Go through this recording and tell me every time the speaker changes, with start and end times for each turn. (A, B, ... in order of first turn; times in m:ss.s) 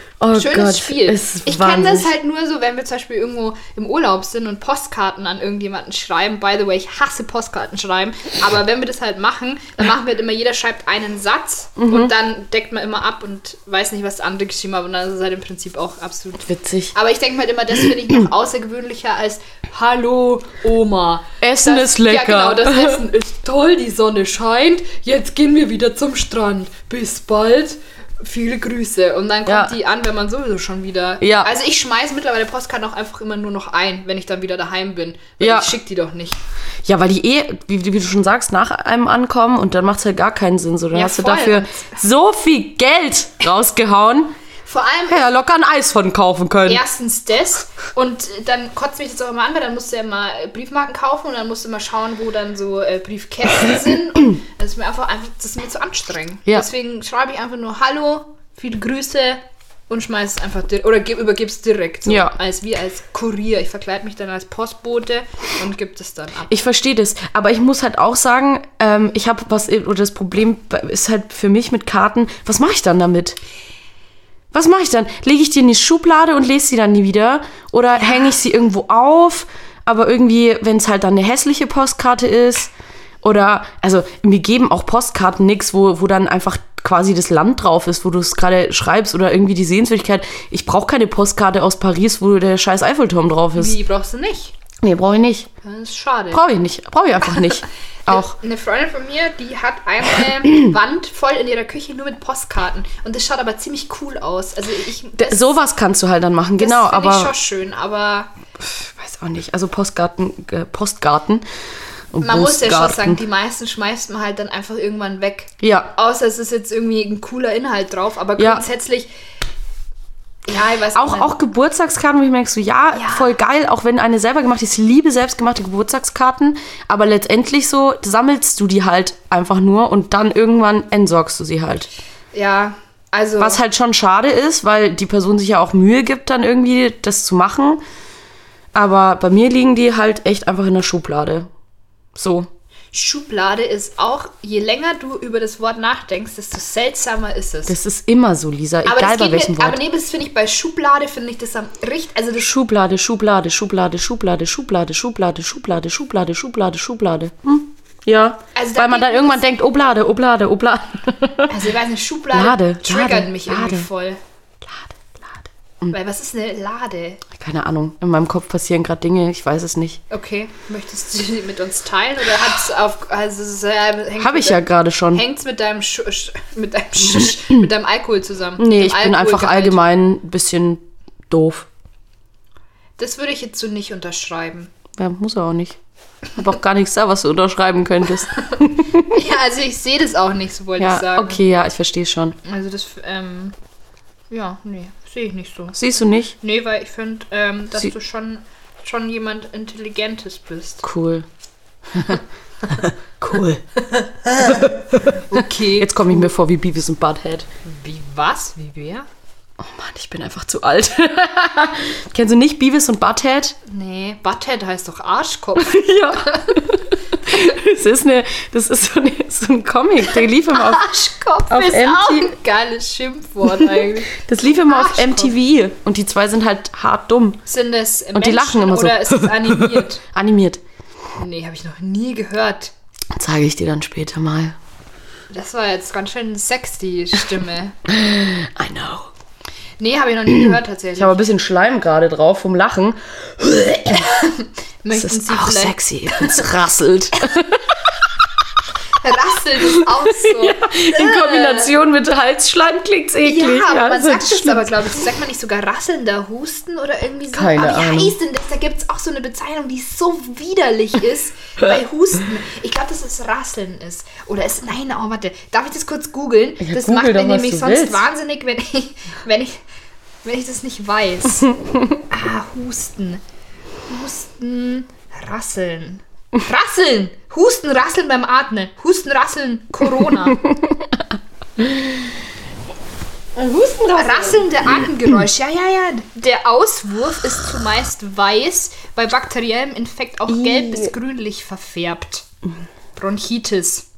0:00.2-0:02.1 A
0:00.3-0:36.4 B
0:11.8-0:12.1 A
0:16.5-0:16.9 A
0:21.4-0:23.0 A
0:29.5-0:29.7 A
0:31.2-0:31.5 A
0:35.4-0:35.7 A
0:36.8-0:44.3 A
0:40.9-0:42.0 B
0:44.7-0:45.3 B
0:45.1-0:46.8 A
0:46.6-1:06.6 B
1:02.0-1:02.3 A
1:06.5-1:13.4 A
1:14.5-1:33.8 A
1:33.6-1:34.5 B
1:34.8-1:35.5 A
1:35.6-1:36.4 B
1:36.3-1:38.3 A
1:38.0-1:45.5 B
1:45.2-1:47.3 A
1:46.6-1:48.3 B
1:48.6-1:51.4 A
1:52.1-1:53.2 A
1:52.2-1:59.1 B
1:55.6-1:55.9 A
1:58.4-1:58.6 A
2:00.5-2:01.3 B
2:00.9-2:11.9 A
2:02.9-2:03.3 B
2:12.3-2:13.6 B
2:13.4-2:17.8 A
2:18.7-2:21.5 A
2:22.1-2:22.5 A
2:22.9-2:27.8 B
2:27.7-2:29.8 A
2:28.8-2:32.5 B
2:32.4-2:41.6 A
2:38.5-2:39.5 B
2:41.5-2:44.2 B
2:42.3-2:43.9 A
2:44.6-2:45.9 A
2:45.9-2:47.2 B
2:47.3-2:50.0 A
2:50.1-2:59.8 B
2:54.2-2:55.2 A
2:58.6-3:01.7 A
3:03.0-3:04.7 B
3:05.0-3:05.8 A
3:06.4-3:09.2 A
3:08.4-3:11.4 B
3:10.8-3:12.4 A
3:12.4-3:13.5 B
3:14.3-3:15.8 B
3:15.7-3:16.4 A
3:16.4-3:20.8 B
3:20.8-3:21.3 A
3:21.9-3:22.2 A
3:22.8-3:23.6 A
3:24.2-3:27.5 A
3:24.4-3:26.2 B
3:27.6-3:29.0 B
3:29.6-3:33.6 A
3:33.6-3:36.6 B
3:35.6-3:40.9 A
3:40.5-3:45.3 B
3:41.5-3:42.3 A
3:43.6-3:47.4 A
3:47.5-3:50.0 B
3:48.1-3:50.6 A
3:51.2-3:52.7 B
3:53.1-3:54.6 A
3:55.3-3:57.8 B
3:57.8-3:59.1 A
3:59.8-4:01.2 B
4:01.0-4:04.2 A
4:03.9-4:06.4 B
4:04.9-4:08.0 A
4:09.0-4:11.7 B
4:09.7-4:14.8 A
4:13.2-4:29.6 B
4:17.3-4:18.1 A
4:26.6-4:28.0 A
4:30.2-4:31.6 B
4:31.5-4:32.0 A
4:32.1-4:33.2 B
4:33.9-4:40.4 B
4:40.2-4:42.1 A
4:43.3-4:44.8 A
4:43.9-4:52.2 B
4:50.3-4:50.9 A
4:53.0-4:53.8 B